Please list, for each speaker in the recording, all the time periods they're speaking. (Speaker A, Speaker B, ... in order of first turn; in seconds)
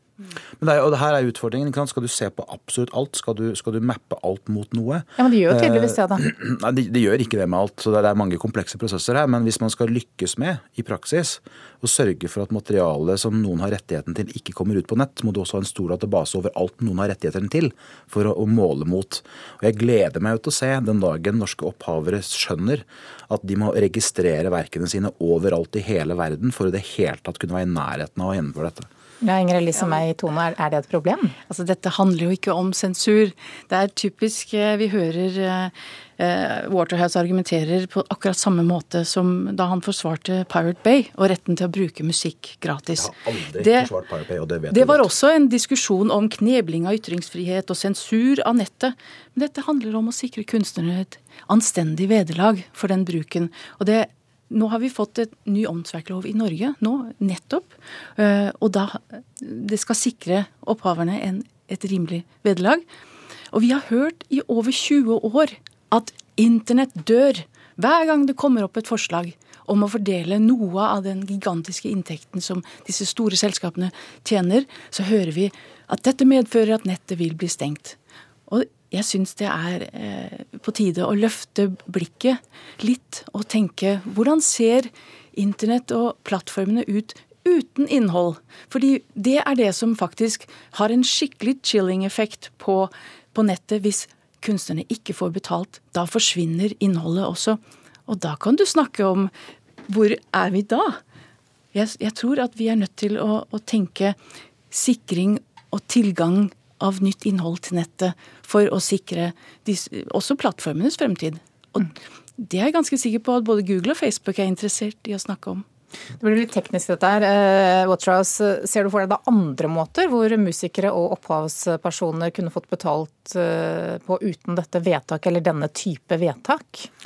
Speaker A: 0.6-28.9, 43.0-45.1
Speaker B: 5.2-6.2, 29.2-31.4, 116.2-126.9
Speaker C: 31.5-43.9, 44.7-62.8, 63.5-78.0, 78.5-99.3, 99.9-101.0, 101.7-104.2, 104.7-115.6